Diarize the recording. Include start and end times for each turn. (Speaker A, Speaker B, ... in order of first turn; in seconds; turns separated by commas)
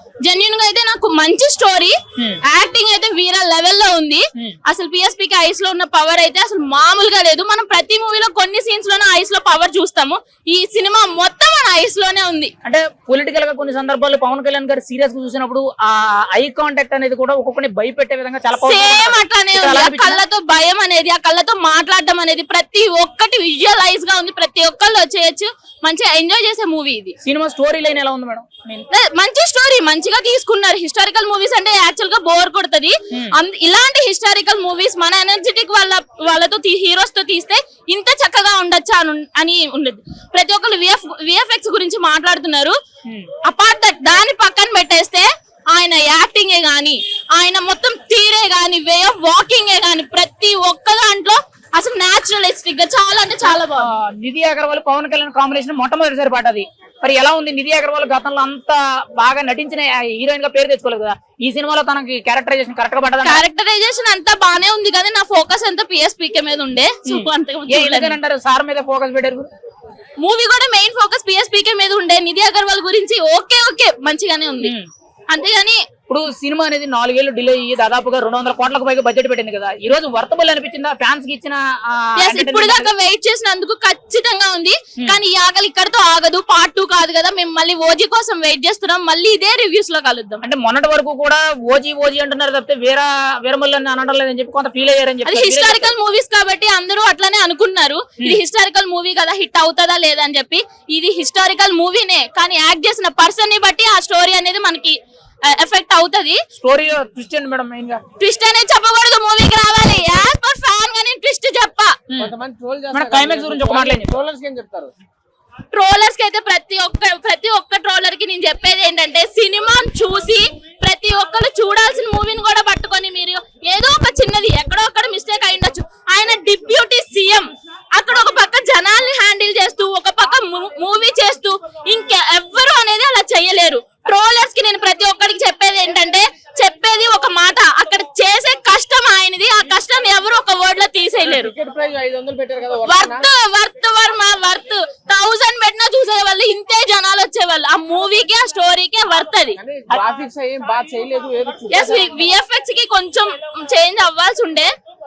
Speaker A: 0.2-12.5, Speaker B: 12.6-20.2, Speaker A: 18.6-27.1, Speaker B: 27.2-28.8, Speaker A: 28.9-42.8, Speaker B: 33.1-33.4, Speaker A: 43.4-53.9, Speaker B: 53.5-63.4, Speaker A: 63.2-68.2, Speaker B: 67.0-69.5, Speaker A: 70.2-74.7, Speaker B: 74.6-74.9, Speaker A: 75.3-75.8, Speaker B: 76.1-82.9, Speaker A: 82.2-90.4, Speaker B: 90.4-95.9, Speaker A: 95.2-106.4, Speaker B: 106.5-108.0, Speaker A: 108.2-112.0, Speaker C: 112.2-114.9, Speaker B: 112.9-114.2, Speaker A: 115.7-141.5, Speaker C: 141.2-143.3, Speaker A: 142.8-149.6, Speaker C: 149.6-152.2, Speaker A: 151.7-154.7